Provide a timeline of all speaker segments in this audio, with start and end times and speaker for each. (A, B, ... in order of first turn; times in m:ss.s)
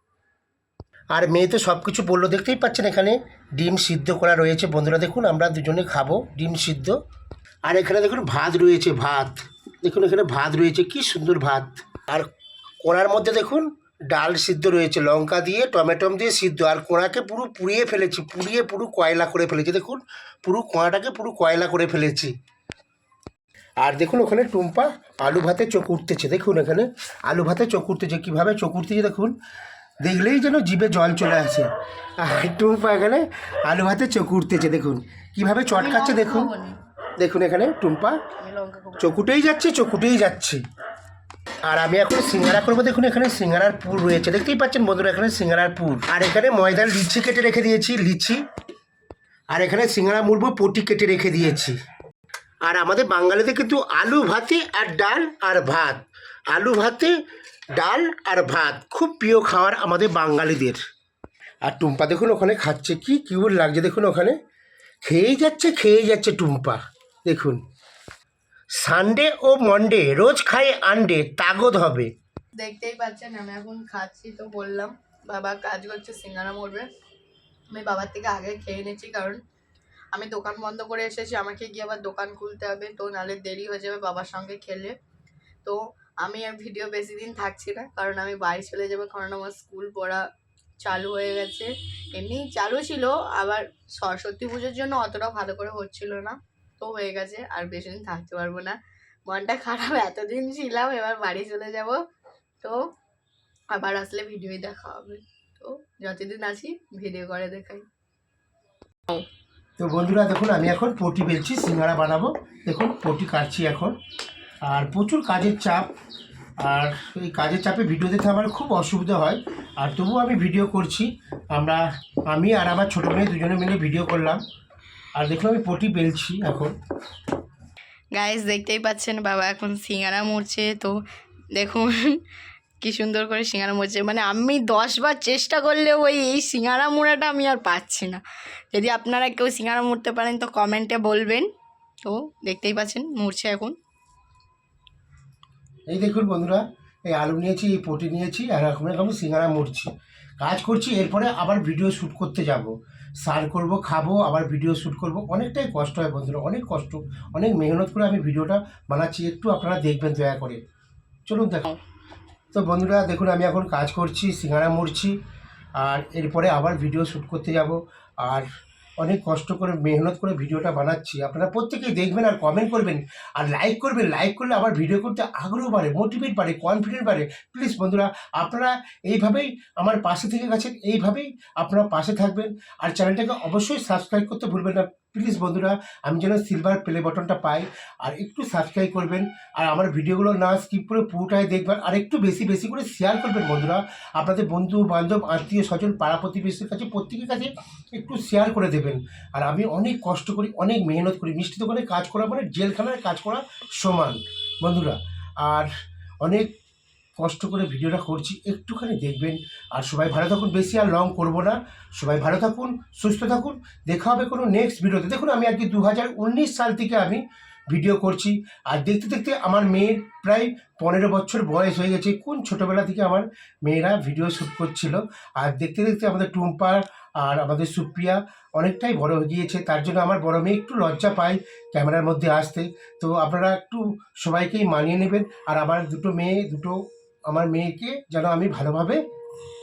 0:01.1-0:07.0 A
0:07.6-0:12.3 A
0:12.8-0:22.3 A
0:23.8-0:29.3 A
0:30.0-0:36.5 A
0:35.8-0:36.8 B
0:37.2-0:38.2 A
0:38.4-0:39.2 B
0:39.0-0:40.6 A
0:41.6-0:48.4 A
0:49.5-0:51.8 A
0:52.6-0:57.2 A
0:57.8-1:00.8 A
1:01.6-1:04.4 A
1:05.0-1:07.6 A
1:08.8-1:12.1 A
1:12.6-1:16.9 B
1:17.7-1:19.4 B
1:20.1-1:25.0 B
1:25.6-1:30.2 B
1:30.8-1:42.0 B
1:43.7-1:47.9 B
1:49.8-1:54.0 A
1:54.7-1:55.9 A
1:56.6-2:04.4 A
2:05.2-2:06.7 A
2:08.1-2:11.0 B
2:11.5-2:12.2 B
2:12.8-2:21.5 B
2:22.0-2:23.8 B
2:25.9-2:32.7 A
2:33.2-2:40.6 A
2:41.3-2:41.8 A
2:42.5-2:45.2 A
2:45.8-2:48.5 A
2:49.0-3:25.7 A
3:26.2-3:26.5 A
3:27.2-3:59.0 A